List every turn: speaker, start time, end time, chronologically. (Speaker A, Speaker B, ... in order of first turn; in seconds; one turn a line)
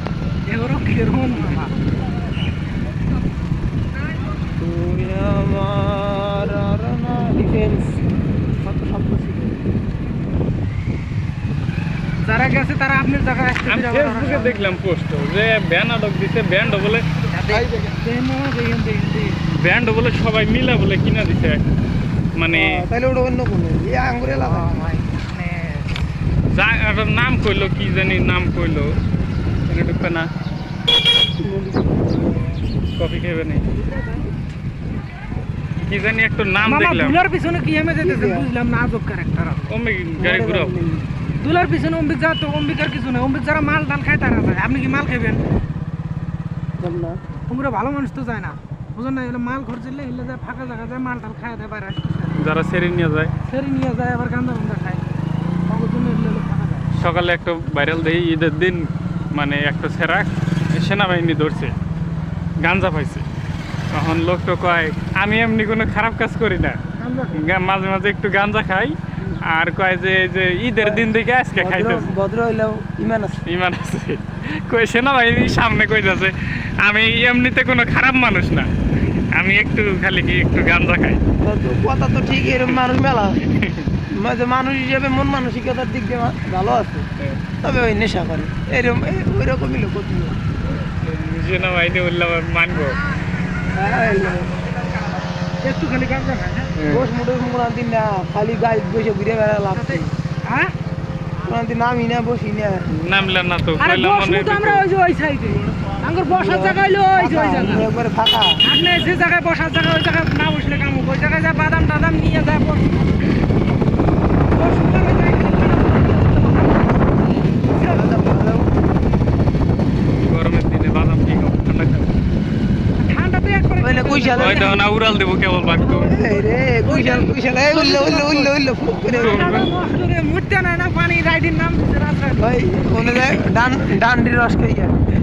Speaker A: 0.5-1.7
Speaker B: 4.6-8.0
Speaker B: 8.6-9.6
Speaker A: 12.2-14.7
Speaker C: 13.7-17.0
Speaker A: 17.3-19.4
Speaker C: 19.5-21.6
Speaker C: 22.4-22.8
Speaker B: 22.5-24.9
Speaker A: 24.3-26.0
Speaker C: 26.5-28.9
Speaker C: 29.7-30.3
Speaker B: 31.4-32.5
Speaker C: 32.9-33.6
Speaker C: 35.9-37.2
Speaker A: 36.6-39.7
Speaker B: 38.0-38.5
Speaker C: 39.7-40.7
Speaker B: 40.2-41.0
Speaker A: 41.4-45.4
Speaker B: 46.8-47.2
Speaker A: 47.5-52.4
Speaker C: 52.4-53.3
Speaker A: 53.4-55.0
Speaker A: 55.7-56.9
Speaker C: 56.9-61.7
Speaker C: 62.6-63.2
Speaker C: 63.9-66.8
Speaker A: 67.0-67.5
Speaker C: 67.3-72.1
Speaker B: 71.5-73.4
Speaker C: 73.5-81.2
Speaker B: 81.4-83.4
Speaker C: 82.5-82.8
Speaker C: 83.4-83.9
Speaker B: 84.1-87.1
Speaker B: 87.6-90.4
Speaker C: 90.9-93.0
Speaker B: 93.7-94.5
Speaker A: 95.6-96.7
Speaker C: 96.8-97.1
Speaker B: 96.9-100.1
Speaker A: 99.7-100.7
Speaker B: 101.4-102.8
Speaker C: 102.9-104.8
Speaker A: 103.8-107.9
Speaker B: 106.3-108.6
Speaker A: 108.6-113.1
Speaker A: 114.5-117.2
Speaker A: 117.7-118.1
Speaker B: 117.8-118.7
Speaker C: 120.1-122.1
Speaker A: 123.0-124.8
Speaker B: 123.8-124.8
Speaker C: 124.4-126.1
Speaker A: 125.8-128.5
Speaker B: 125.9-129.7
Speaker A: 129.1-132.5
Speaker C: 129.2-129.7
Speaker B: 132.4-135.0